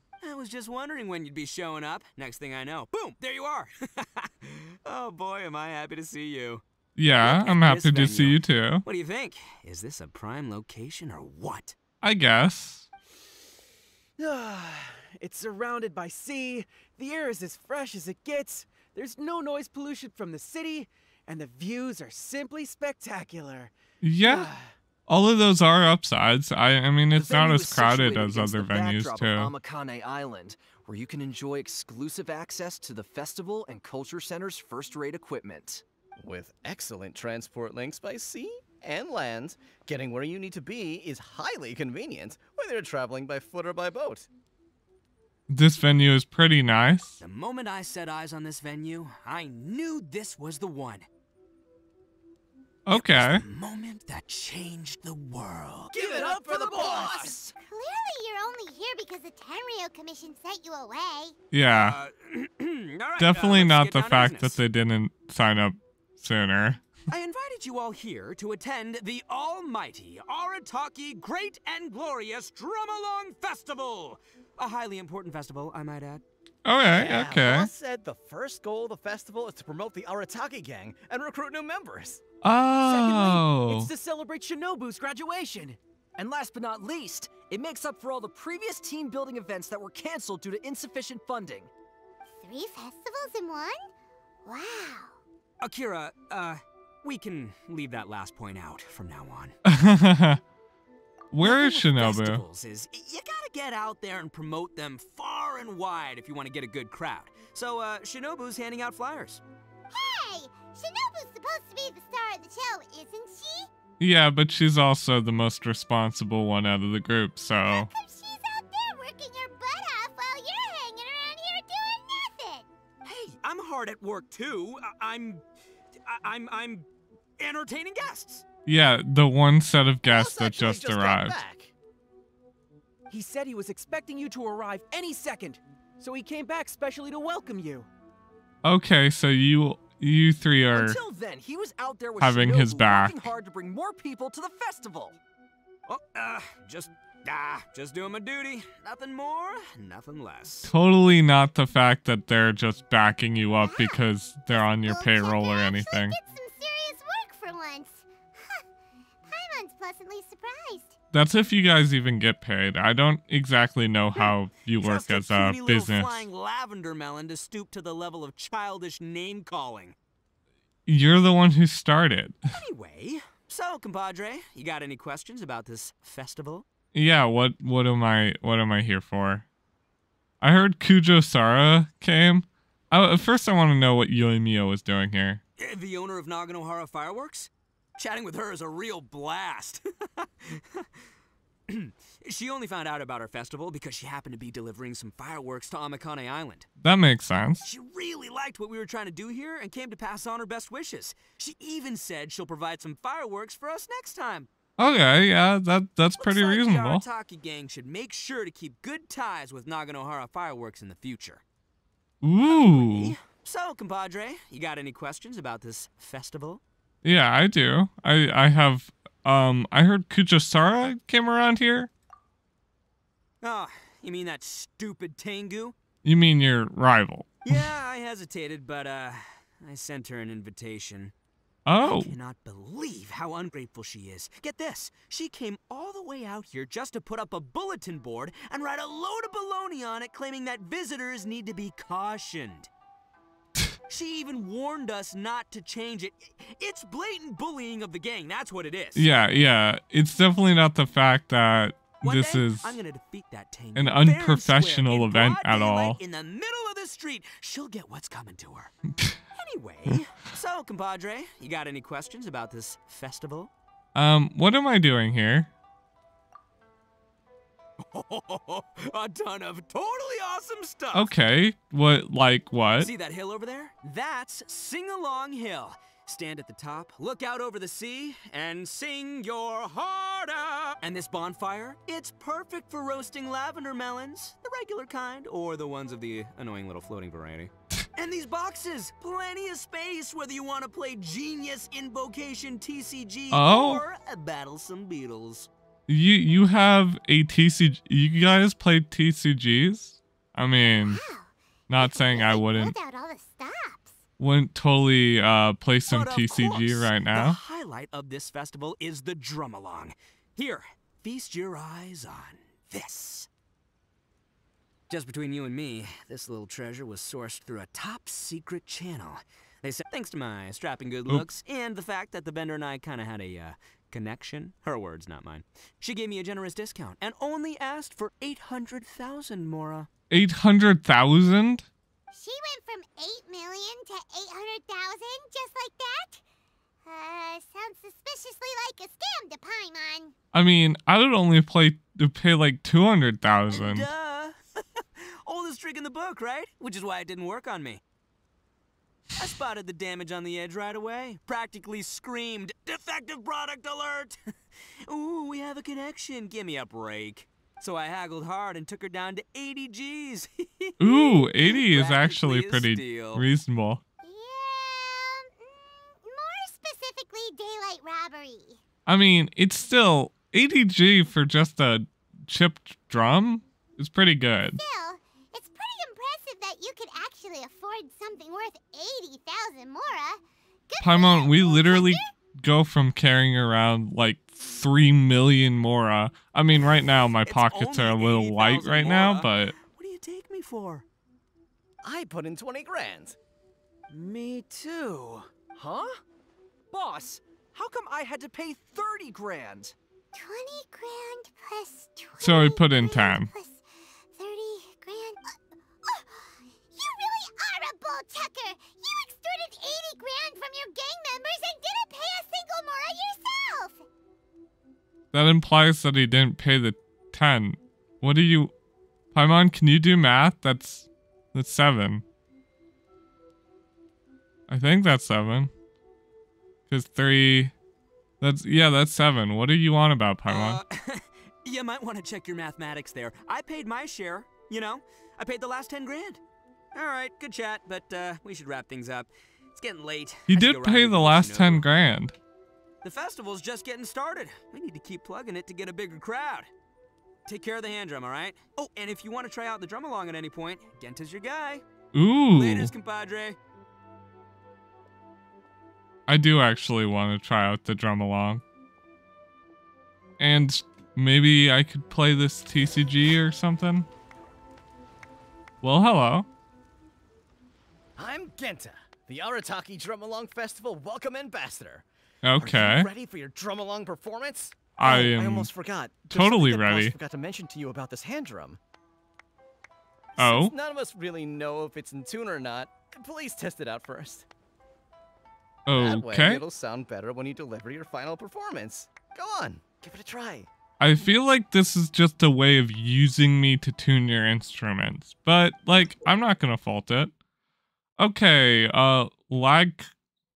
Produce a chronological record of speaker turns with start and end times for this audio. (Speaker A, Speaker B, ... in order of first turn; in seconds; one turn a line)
Speaker A: 0.2-6.6
Speaker B: 7.0-8.8
Speaker A: 7.2-11.8
Speaker B: 12.0-12.9
Speaker C: 14.2-24.7
Speaker B: 24.0-24.5
Speaker B: 25.1-29.5
Speaker D: 27.3-30.6
Speaker D: 31.1-31.7
Speaker D: 32.5-32.8
Speaker E: 36.2-44.3
Speaker B: 45.5-47.2
Speaker A: 47.2-51.1
Speaker B: 52.9-53.4
Speaker A: 52.9-56.0
Speaker E: 55.9-57.4
Speaker C: 56.0-57.4
Speaker D: 56.2-56.8
Speaker F: 57.6-61.4
Speaker B: 61.5-62.0
Speaker A: 61.7-64.6
Speaker B: 63.2-66.8
Speaker A: 67.1-76.2
Speaker B: 76.7-77.7
Speaker E: 76.9-82.2
Speaker B: 82.4-83.9
Speaker C: 82.9-84.9
Speaker D: 84.9-91.7
Speaker F: 92.3-93.9
Speaker F: 94.5-95.2
Speaker A: 95.6-99.6
Speaker B: 99.7-100.4
Speaker B: 101.3-102.4
Speaker A: 101.4-109.4
Speaker F: 109.9-113.7
Speaker B: 114.0-117.9
Speaker F: 117.7-122.7
Speaker A: 123.0-125.4
Speaker A: 126.0-126.9
Speaker A: 127.4-128.4
Speaker B: 128.7-131.4
Speaker E: 130.1-131.7
Speaker C: 133.1-137.9
Speaker B: 138.6-141.0
Speaker D: 140.8-145.1
Speaker B: 142.2-143.3
Speaker A: 145.9-150.7
Speaker B: 150.7-156.2
Speaker F: 153.6-154.0
Speaker F: 154.7-158.6
Speaker F: 159.2-161.0
Speaker B: 161.1-166.3
Speaker A: 164.2-170.0
Speaker B: 170.9-172.4
Speaker A: 172.5-176.7
Speaker B: 176.9-179.4
Speaker B: 180.4-185.4
Speaker A: 185.6-190.9
Speaker A: 191.7-196.7
Speaker B: 196.8-197.7
Speaker A: 197.6-204.5
Speaker B: 204.8-207.0
Speaker A: 206.2-211.4
Speaker B: 212.2-213.2
Speaker A: 212.5-216.6
Speaker B: 217.0-221.9
Speaker A: 223.4-225.8
Speaker B: 226.0-227.6
Speaker A: 227.4-231.1
Speaker B: 231.7-232.1
Speaker A: 231.8-242.7
Speaker A: 243.9-249.1
Speaker B: 249.0-252.8
Speaker A: 252.0-258.7
Speaker B: 253.8-256.0
Speaker A: 259.3-263.5
Speaker B: 263.9-265.5
Speaker A: 267.9-271.1
Speaker B: 270.9-272.9
Speaker A: 272.8-295.5
Speaker B: 293.3-293.8
Speaker B: 295.9-301.0
Speaker F: 300.8-304.0
Speaker B: 301.7-302.8
Speaker B: 304.2-307.4
Speaker A: 305.9-313.3
Speaker A: 314.9-329.9
Speaker B: 330.1-331.7
Speaker F: 332.1-336.2
Speaker F: 336.8-340.1
Speaker B: 340.3-343.9
Speaker A: 343.5-347.8
Speaker A: 349.2-354.2
Speaker A: 354.9-363.2
Speaker B: 360.8-363.8
Speaker F: 364.0-368.6
Speaker B: 368.9-374.6
Speaker F: 374.6-382.1
Speaker B: 380.8-389.5
Speaker A: 387.2-390.9
Speaker E: 391.8-393.2
Speaker C: 393.9-395.3
Speaker D: 396.7-399.7
Speaker F: 400.1-413.9
Speaker B: 402.2-403.3
Speaker B: 415.1-418.5
Speaker B: 419.1-422.0
Speaker B: 424.5-425.5
Speaker B: 426.7-427.5
Speaker B: 428.2-430.6
Speaker A: 430.3-436.2
Speaker A: 436.7-441.6
Speaker B: 440.3-442.1
Speaker A: 442.8-446.5
Speaker A: 447.3-451.6
Speaker B: 451.9-452.7
Speaker A: 452.3-453.4
Speaker B: 456.1-458.4
Speaker B: 460.2-463.9
Speaker B: 465.6-466.3
Speaker E: 468.0-471.9
Speaker B: 472.2-472.9
Speaker E: 472.4-478.6
Speaker B: 474.8-475.5
Speaker B: 476.1-476.9
Speaker E: 480.2-484.3
Speaker B: 480.2-480.5
Speaker B: 485.7-486.4
Speaker E: 485.7-490.5
Speaker B: 490.8-497.1
Speaker B: 498.0-499.9